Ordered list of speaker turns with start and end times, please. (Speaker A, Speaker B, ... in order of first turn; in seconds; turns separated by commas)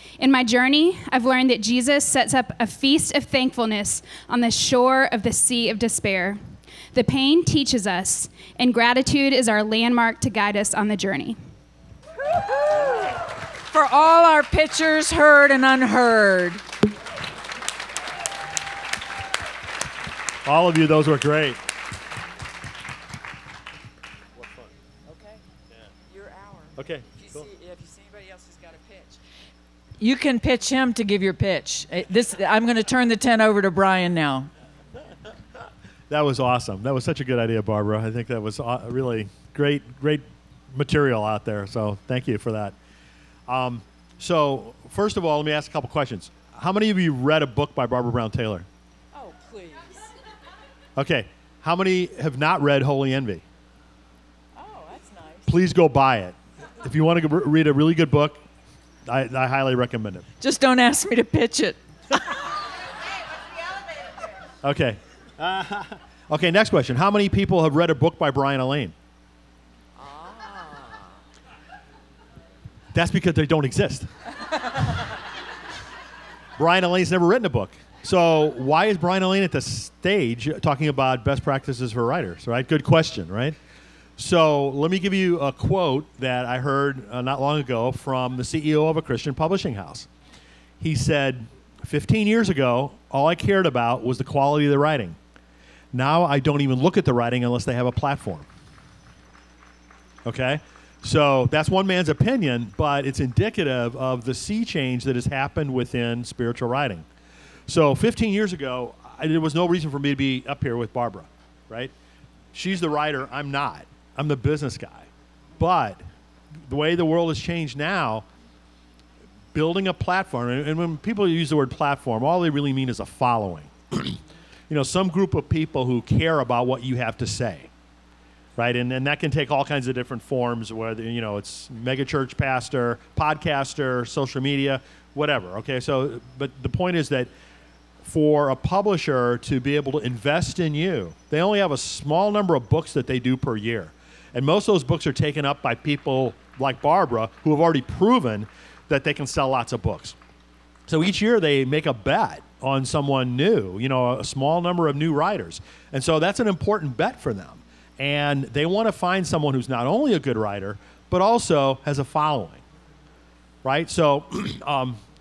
Speaker A: 0.2-11.4, Speaker B: 12.2-16.6, Speaker C: 20.4-21.6, Speaker C: 24.4-24.7, Speaker B: 25.1-25.4, Speaker B: 26.1-29.1, Speaker C: 26.8-27.1, Speaker B: 30.0-34.5, Speaker C: 36.1-42.7, Speaker C: 43.5-48.6, Speaker B: 49.1-49.9, Speaker C: 51.0-53.4, Speaker B: 54.6-55.5, Speaker C: 55.5-58.4, Speaker C: 59.0-60.2, Speaker B: 60.4-61.8, Speaker C: 64.6-68.9, Speaker C: 72.9-74.1, Speaker C: 76.6-83.5, Speaker C: 84.2-90.1, Speaker C: 90.8-95.2, Speaker C: 95.9-98.5, Speaker C: 100.2-107.0, Speaker C: 107.7-111.9, Speaker C: 112.5-116.0, Speaker C: 116.7-118.2, Speaker C: 119.5-127.7, Speaker C: 128.6-137.3, Speaker C: 138.0-150.1, Speaker C: 150.9-162.6, Speaker C: 163.6-165.0